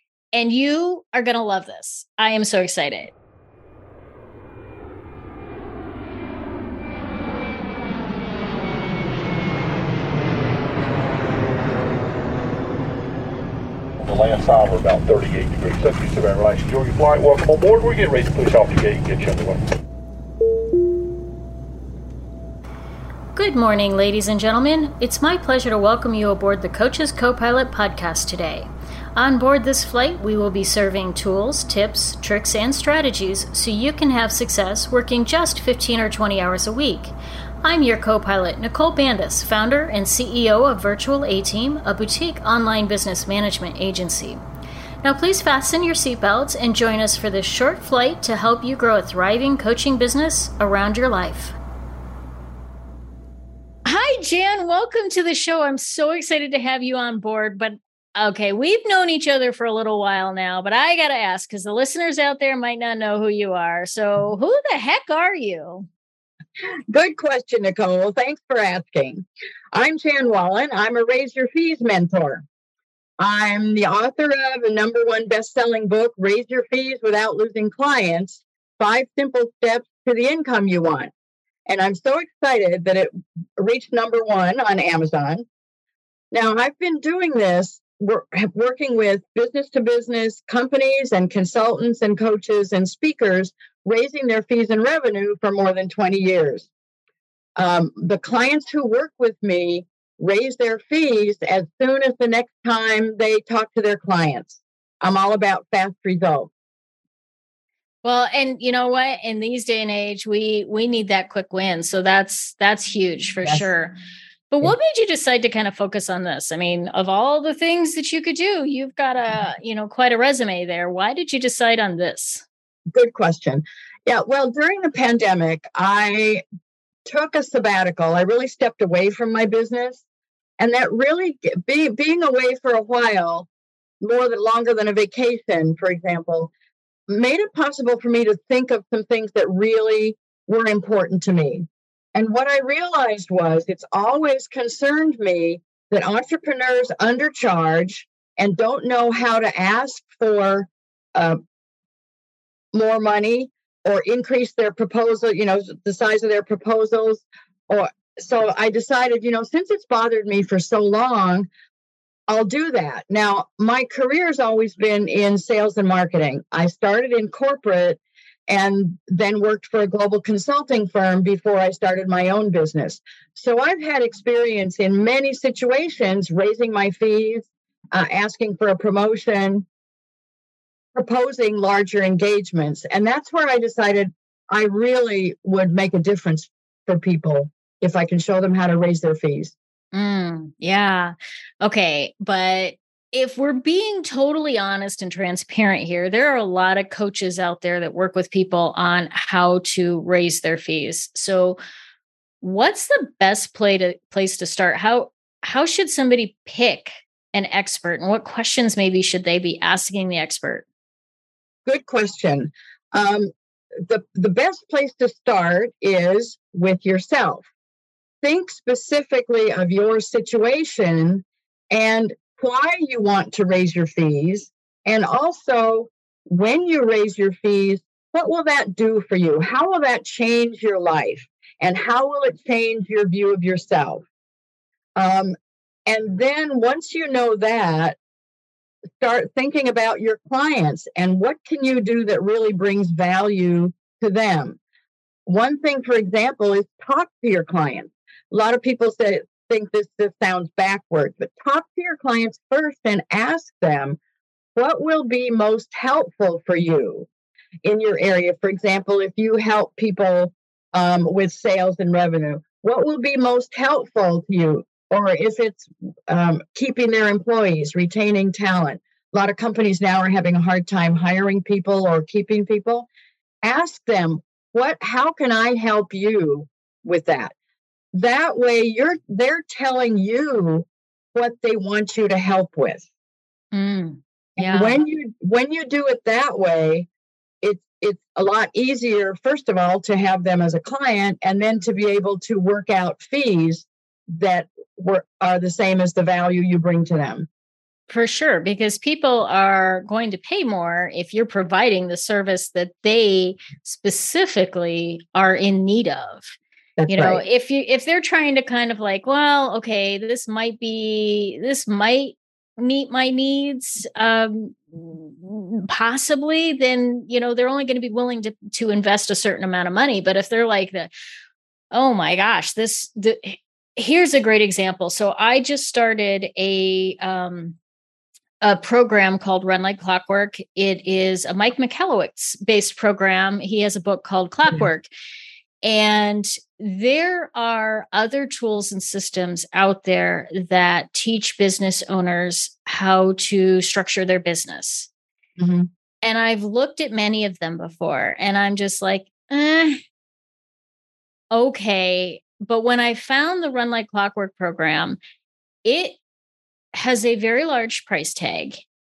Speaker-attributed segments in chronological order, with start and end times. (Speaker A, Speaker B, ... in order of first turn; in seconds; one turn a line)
Speaker A: 0.3-3.1
Speaker B: 14.0-19.6
Speaker A: 23.4-44.4
Speaker A: 45.0-51.5
Speaker A: 53.9-65.9
Speaker C: 66.9-72.5
Speaker C: 73.2-81.1
Speaker C: 81.7-85.5
Speaker C: 86.3-96.7
Speaker C: 97.6-106.5
Speaker A: 108.0-114.0
Speaker A: 114.5-122.5
Speaker C: 122.9-126.4
Speaker C: 127.1-130.0
Speaker C: 130.6-133.5
Speaker C: 134.0-136.5
Speaker C: 137.1-151.4
Speaker C: 152.7-161.5
Speaker C: 162.3-179.7
Speaker C: 180.9-189.6
Speaker A: 189.9-201.6
Speaker A: 202.4-210.7
Speaker C: 211.7-217.5
Speaker C: 218.2-234.1
Speaker C: 235.0-235.3
Speaker C: 235.9-238.0
Speaker C: 239.0-244.6
Speaker C: 245.3-254.0
Speaker C: 254.6-257.1
Speaker C: 257.6-272.9
Speaker C: 273.4-277.3
Speaker C: 277.9-282.9
Speaker A: 283.5-284.8
Speaker C: 284.4-286.9
Speaker C: 287.4-297.3
Speaker A: 297.9-306.4
Speaker C: 306.8-307.2
Speaker A: 306.9-320.9
Speaker A: 321.7-327.6
Speaker A: 328.4-334.9
Speaker A: 335.6-344.9
Speaker C: 345.4-345.7
Speaker A: 346.0-349.8
Speaker A: 351.3-355.0
Speaker A: 355.6-356.0
Speaker A: 356.7-358.6